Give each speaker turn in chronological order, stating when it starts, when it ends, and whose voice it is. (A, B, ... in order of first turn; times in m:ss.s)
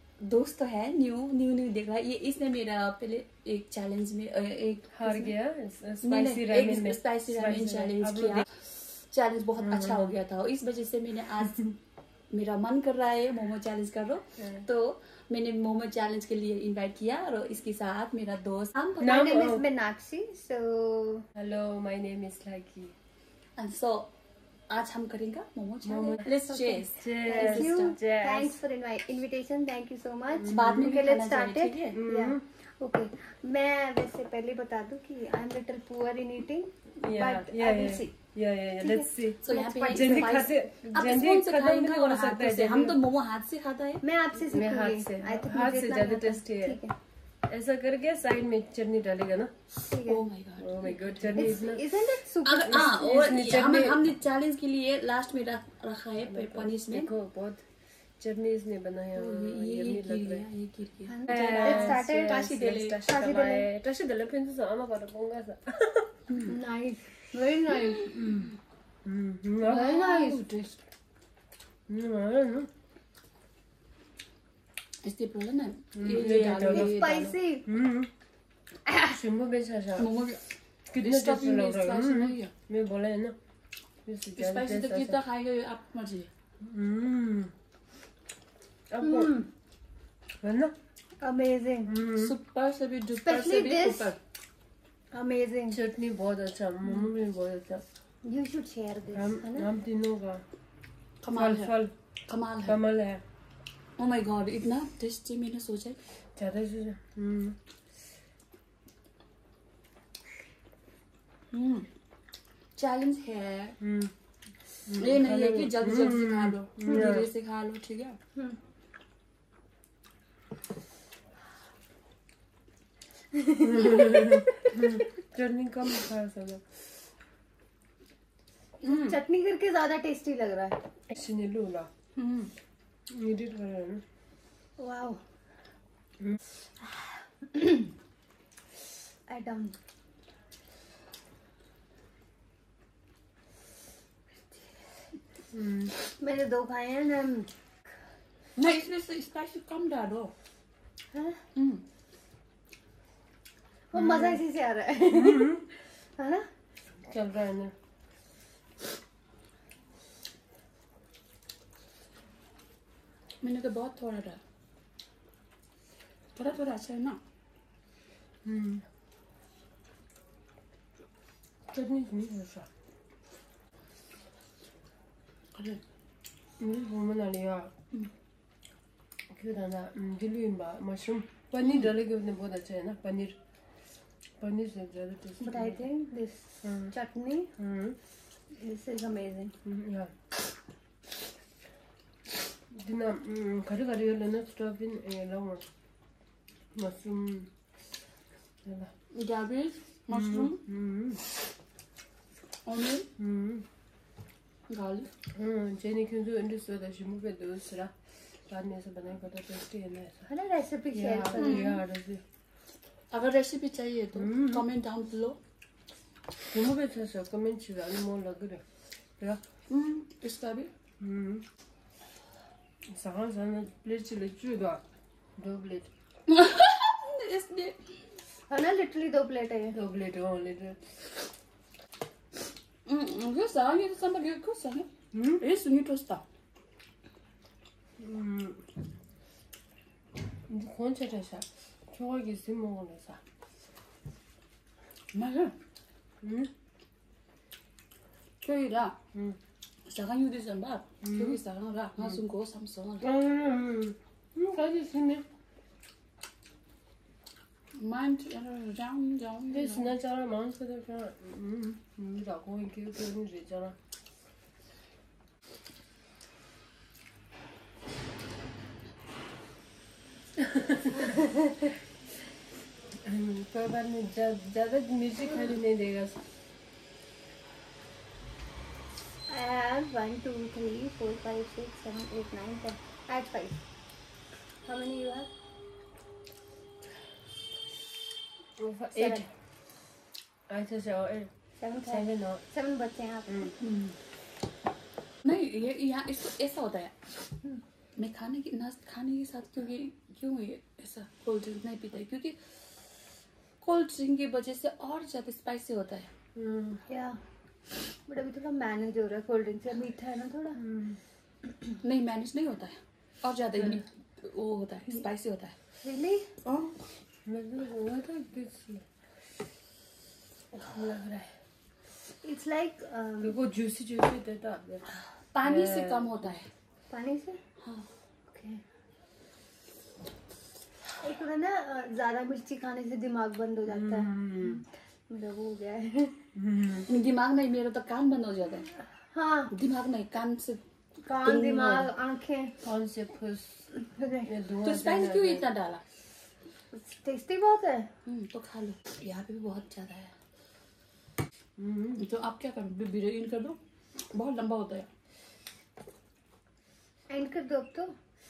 0:00.2-0:05.3 A
0:04.9-0:08.5 B
0:06.0-0:11.7 A
0:09.6-0:10.2 B
0:12.3-0:19.3 A
0:19.0-0:19.6 B
0:19.0-0:21.2 C
0:21.3-0:23.0 B
0:23.6-0:24.1 A
0:24.7-0:28.0 A
0:25.8-0:28.6 B
0:27.3-0:38.2 C
0:30.4-0:30.9 B
0:30.5-0:32.0 A
0:32.0-0:32.4 B
0:37.0-0:43.0 B
0:38.8-0:40.3 C
0:39.4-0:44.0 A
0:44.0-0:47.0 C
0:44.4-0:46.8 B
0:47.5-0:49.5 B
0:49.9-0:50.2 C
0:50.0-0:51.5 A
0:50.6-0:51.9 B
0:51.3-0:53.0 C
0:52.4-0:57.1 A
0:52.6-0:54.0 B
0:56.2-0:57.6 B
0:58.2-1:00.4 B
0:59.1-1:03.0 A
1:01.1-1:02.4 C
1:01.3-1:06.2 B
1:03.0-1:03.7 C
1:06.4-1:08.2 C
1:07.7-1:08.5 A
1:08.1-1:08.5 B
1:09.0-1:09.9 B
1:09.7-1:10.5 C
1:09.7-1:10.7 A
1:11.9-1:12.7 B
1:15.0-1:17.1 A
1:16.0-1:18.1 B
1:16.6-1:17.7 C
1:18.9-1:19.1 C
1:19.1-1:20.1 B
1:20.0-1:20.4 A
1:20.9-1:23.3 B
1:21.0-1:22.5 A
1:24.1-1:25.2 B
1:24.4-1:26.3 A
1:26.6-1:27.5 B
1:28.9-1:29.3 B
1:29.0-1:29.5 C
1:30.4-1:30.8 B
1:31.2-1:31.9 C
1:31.9-1:32.3 B
1:32.1-1:34.2 A
1:33.2-1:34.1 C
1:35.1-1:35.8 C
1:35.7-1:37.8 B
1:38.2-1:39.7 C
1:39.1-1:40.4 B
1:41.2-1:41.8 A
1:41.3-1:41.9 B
1:42.3-1:42.8 A
1:42.6-1:43.2 B
1:44.0-1:46.0 A
1:46.4-1:47.6 B
1:51.5-1:51.9 A
1:52.8-1:53.8 A
1:53.8-1:54.1 B
1:54.9-1:57.3 B
1:54.9-1:58.2 A
2:03.3-2:04.7 C
2:03.6-2:06.8 B
2:08.8-2:10.8 C
2:08.8-2:09.2 A
2:11.1-2:11.9 B
2:12.2-2:12.5 A
2:13.1-2:14.0 B
2:14.8-2:15.2 C
2:17.5-2:17.9 C
2:19.3-2:19.7 C
2:25.5-2:25.9 B
2:26.2-2:27.5 C
2:28.6-2:30.3 A
2:31.1-2:31.4 C
2:31.5-2:31.8 A
2:33.9-2:36.4 C
2:33.9-2:34.4 B
2:35.1-2:35.6 B
2:37.0-2:37.7 B
2:43.4-2:44.4 A
2:46.3-2:47.2 A
2:48.4-2:48.8 B
2:51.7-2:52.7 B
2:55.5-2:55.8 A
2:56.6-2:57.7 B
2:59.3-3:03.4 B
3:04.4-3:05.8 B
3:05.4-3:07.5 C
3:06.6-3:06.9 B
3:07.6-3:08.0 B
3:08.5-3:09.5 C
3:09.6-3:10.1 B
3:12.7-3:15.6 B
3:16.7-3:17.5 B
3:18.6-3:18.9 B
3:19.1-3:20.6 A
3:20.1-3:21.2 B
3:22.6-3:23.1 A
3:23.2-3:23.7 B
3:24.7-3:25.1 A
3:25.3-3:27.9 B
3:28.5-3:30.2 B
3:30.3-3:31.8 C
3:30.9-3:32.2 B
3:31.4-3:31.7 A
3:33.1-3:35.4 A
3:34.1-3:34.7 B
3:36.5-3:38.6 B
3:39.7-3:40.7 A
3:41.0-3:41.4 B
3:42.9-3:44.8 B
3:45.4-3:45.9 B
3:46.3-3:47.8 A
3:48.5-3:49.8 C
3:49.7-3:50.9 B
3:52.8-3:56.2 A
3:55.1-3:55.4 B
3:58.0-3:58.7 B
4:00.5-4:03.2 B
4:05.1-4:05.6 A
4:06.2-4:06.5 B
4:08.4-4:09.0 A
4:09.8-4:13.1 A
4:11.0-4:11.4 B
4:13.0-4:15.2 B
4:17.7-4:19.9 A
4:19.5-4:23.8 B
4:30.4-4:31.1 B
4:33.0-4:36.2 B
4:39.3-4:43.6 C
4:44.6-4:45.3 C
4:48.6-4:49.3 B
4:48.9-4:49.3 C
4:50.5-4:51.3 B
4:51.6-4:53.6 C
4:51.9-4:52.4 B
4:53.6-4:53.9 A
4:55.2-4:57.1 A
4:58.0-5:02.4 A
5:03.6-5:06.1 A
5:06.4-5:06.8 B
5:06.9-5:07.2 C
5:08.1-5:10.6 C
5:10.6-5:11.0 B
5:11.8-5:15.6 A
5:15.8-5:16.3 C
5:16.4-5:16.8 A
5:17.2-5:18.8 B
5:20.5-5:21.3 B
5:22.2-5:23.4 C
5:23.2-5:24.9 B
5:25.3-5:26.5 A
5:25.4-5:26.2 B
5:26.9-5:27.4 C
5:28.3-5:28.6 C
5:31.0-5:34.2 C
5:33.7-5:34.6 B
5:35.1-5:36.2 C
5:36.4-5:36.9 B
5:36.7-5:38.7 A
5:39.1-5:39.5 C
5:39.5-5:41.9 A
5:41.1-5:42.6 C
5:42.6-5:43.7 B
5:43.8-5:44.3 C
5:44.2-5:45.5 B
5:44.6-5:45.8 A
5:46.7-5:47.9 C
5:48.1-5:50.1 A
5:51.6-5:52.0 B
5:52.0-5:54.9 A
5:57.1-5:57.9 C